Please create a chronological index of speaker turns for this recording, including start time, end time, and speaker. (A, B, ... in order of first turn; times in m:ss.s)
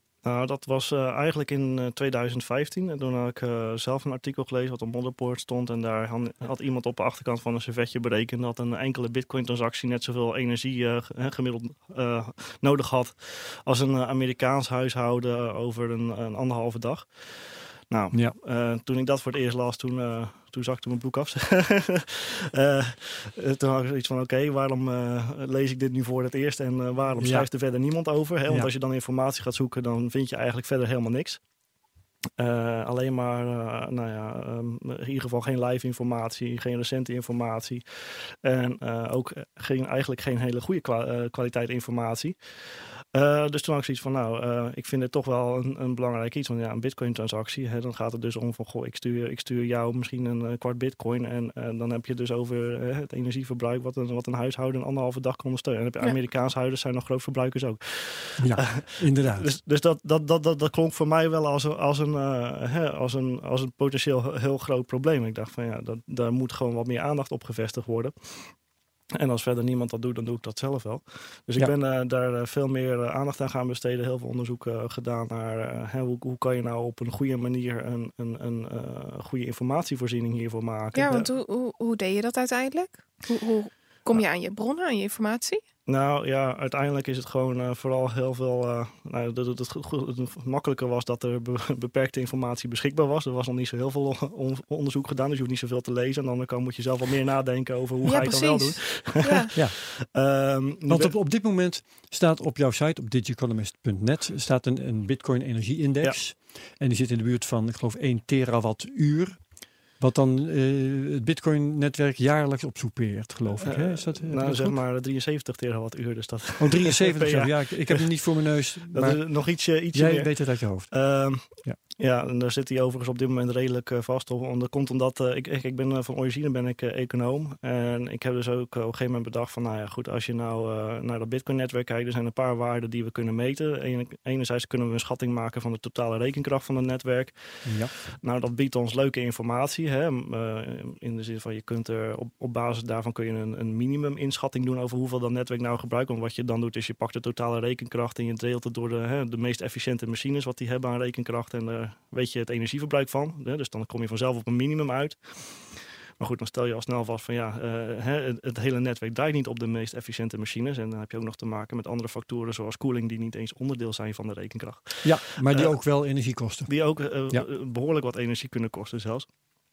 0:00.2-0:31.4 A
0:27.2-0:27.5 B
0:32.4-0:42.4 A
0:43.0-1:08.5 A
0:58.4-0:59.5 B
1:09.1-1:21.3 A
1:20.9-1:25.6 C
1:25.8-1:41.1 A
1:38.0-1:39.5 C
1:40.9-1:49.4 B
1:50.0-1:54.8 B
1:53.6-1:58.2 A
1:56.6-1:59.2 B
1:58.9-2:45.7 A
1:59.9-2:00.9 B
2:17.6-2:17.9 B
2:45.0-2:46.7 B
2:46.7-2:49.3 A